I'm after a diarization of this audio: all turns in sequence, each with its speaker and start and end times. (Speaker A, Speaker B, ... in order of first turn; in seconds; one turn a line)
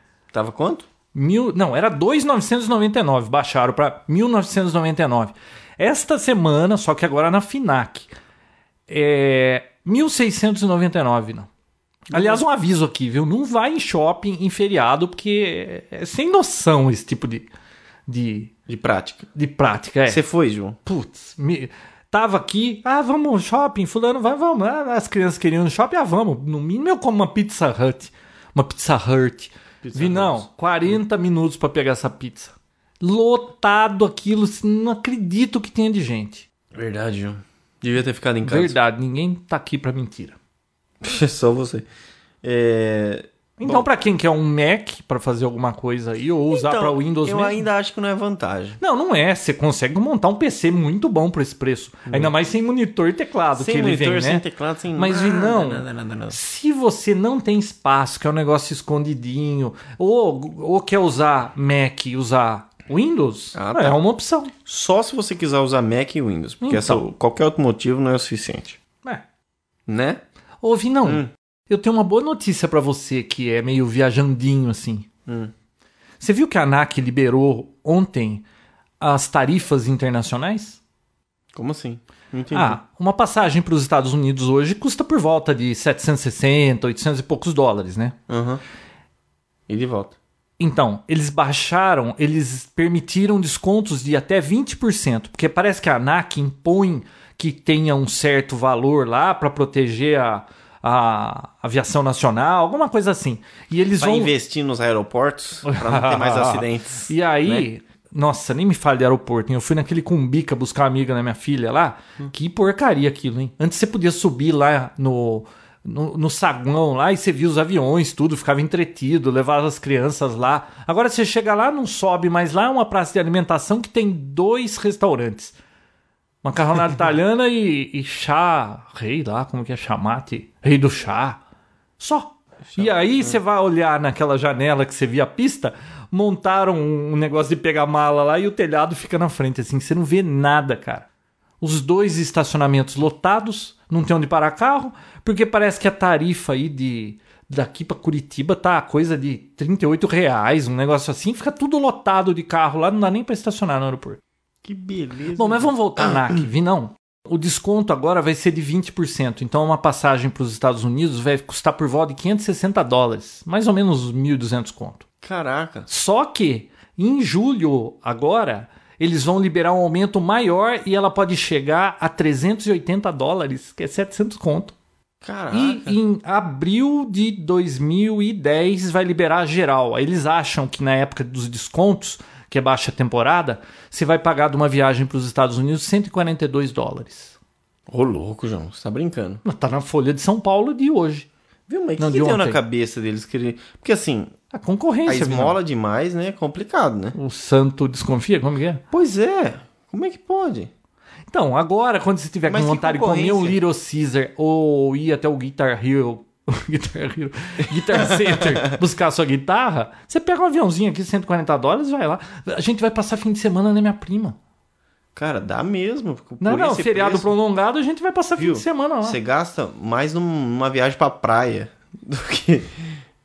Speaker A: 0.3-0.9
Speaker B: 1.1-8.1
Speaker B: 8.9-11.5
Speaker A: 12.1-12.4
Speaker B: 12.1-17.5
Speaker B: 18.1-18.5
Speaker A: 18.7-19.3
Speaker B: 19.4-20.2
Speaker A: 20.1-20.8
Speaker B: 20.9-36.5
Speaker A: 29.8-30.9
Speaker A: 36.7-38.8
Speaker B: 38.4-40.4
Speaker A: 41.0-41.9
Speaker A: 42.4-43.9
Speaker B: 43.6-47.6
Speaker A: 46.5-48.8
Speaker B: 48.8-64.5
Speaker A: 52.1-52.3
Speaker A: 53.6-56.4
Speaker A: 63.5-64.0
Speaker A: 64.6-68.8
Speaker B: 66.6-67.0
Speaker A: 69.9-70.2
Speaker B: 70.6-75.1
Speaker A: 71.0-71.3
Speaker A: 75.3-75.5
Speaker B: 76.2-78.4
Speaker B: 79.0-80.8
Speaker A: 81.5-82.8
Speaker B: 82.5-88.2
Speaker A: 88.3-88.6
Speaker A: 89.7-90.2
Speaker B: 90.6-104.3
Speaker A: 104.0-107.7
Speaker B: 105.6-125.5
Speaker B: 126.4-131.4
Speaker B: 132.0-141.1
Speaker A: 132.7-133.4
Speaker B: 141.6-154.2
Speaker A: 154.6-156.4
Speaker B: 155.3-165.0
Speaker A: 165.2-165.9
Speaker B: 165.9-174.8
Speaker A: 175.2-176.0
Speaker B: 175.5-187.4
Speaker A: 187.9-189.4
Speaker B: 189.4-191.3
Speaker A: 191.7-194.3
Speaker B: 192.0-192.6
Speaker B: 194.5-195.6
Speaker A: 195.1-197.2
Speaker B: 197.2-198.8
Speaker A: 198.9-200.7
Speaker B: 201.3-214.4
Speaker A: 202.5-203.6
Speaker A: 207.9-208.7
Speaker A: 215.2-217.3
Speaker B: 216.4-219.2
Speaker A: 218.4-222.9